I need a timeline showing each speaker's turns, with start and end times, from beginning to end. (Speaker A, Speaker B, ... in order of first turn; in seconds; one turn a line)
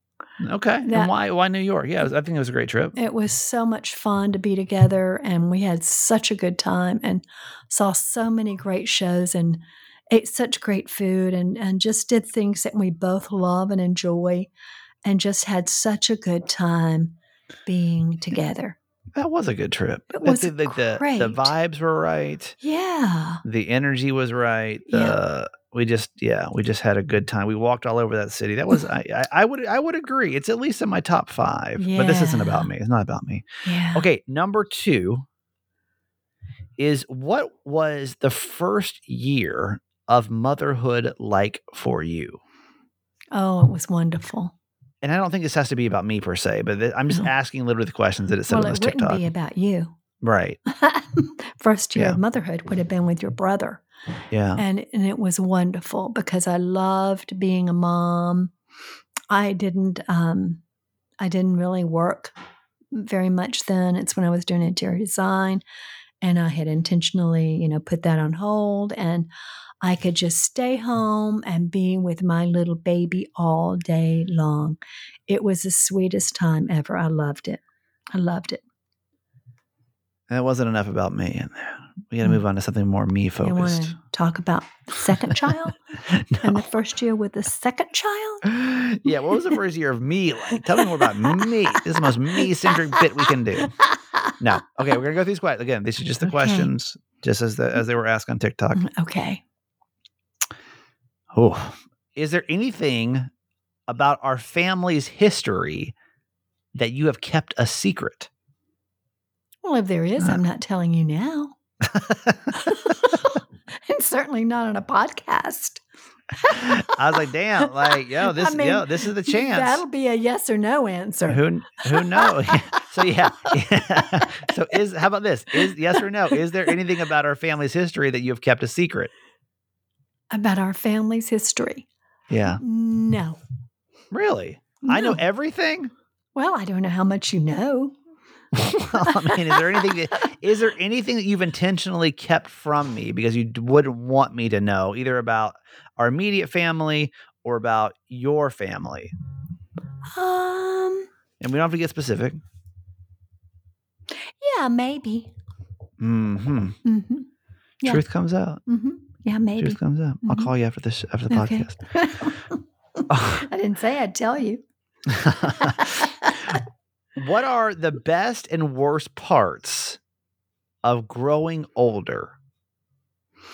Speaker A: 0.4-3.0
Speaker B: 0.8-1.1
Speaker B: 3.0-14.5
Speaker B: 15.0-17.1
Speaker B: 17.7-18.8
Speaker A: 19.1-22.6
Speaker B: 20.1-21.5
Speaker B: 22.6-23.4
Speaker A: 23.4-35.3
Speaker B: 24.9-25.2
Speaker B: 31.8-32.7
Speaker B: 33.6-34.1
Speaker A: 36.8-42.4
Speaker B: 43.3-44.5
Speaker A: 45.0-49.3
Speaker B: 48.5-50.0
Speaker A: 50.2-50.6
Speaker B: 50.7-53.8
Speaker A: 54.3-54.6
Speaker B: 54.6-58.5
Speaker B: 59.3-60.6
Speaker B: 61.2-62.4
Speaker B: 62.9-65.6
Speaker B: 66.2-69.3
Speaker B: 69.8-77.6
Speaker B: 78.1-78.6
Speaker A: 80.3-84.0
Speaker B: 83.4-85.8
Speaker A: 86.1-86.6
Speaker B: 86.4-88.5
Speaker A: 88.5-93.7
Speaker B: 89.3-89.6
Speaker B: 90.8-91.6
Speaker B: 92.3-94.4
Speaker A: 94.4-98.8
Speaker B: 96.2-96.7
Speaker B: 98.8-99.4
Speaker A: 101.3-103.3
Speaker A: 103.9-106.0
Speaker A: 106.8-108.3
Speaker B: 109.6-111.5
Speaker A: 112.0-112.3
Speaker B: 112.5-115.8
Speaker B: 116.4-122.8
Speaker A: 116.8-119.8
Speaker A: 121.3-129.1
Speaker B: 123.8-124.4
Speaker B: 125.6-126.0
Speaker B: 130.3-131.9
Speaker A: 132.3-132.6
Speaker B: 132.5-133.4
Speaker A: 134.1-135.9
Speaker B: 134.8-135.2
Speaker B: 136.3-138.0
Speaker A: 138.6-149.1
Speaker B: 139.0-139.9
Speaker B: 150.1-151.1
Speaker A: 151.4-152.4
Speaker B: 154.4-155.3
Speaker A: 156.0-156.8
Speaker B: 156.8-157.3
Speaker A: 157.8-158.6
Speaker B: 158.7-160.5
Speaker A: 159.6-161.8
Speaker B: 161.3-162.6
Speaker A: 163.1-163.4
Speaker B: 163.4-164.6
Speaker A: 165.1-165.9
Speaker B: 165.4-166.5
Speaker A: 167.2-170.0
Speaker A: 170.8-172.3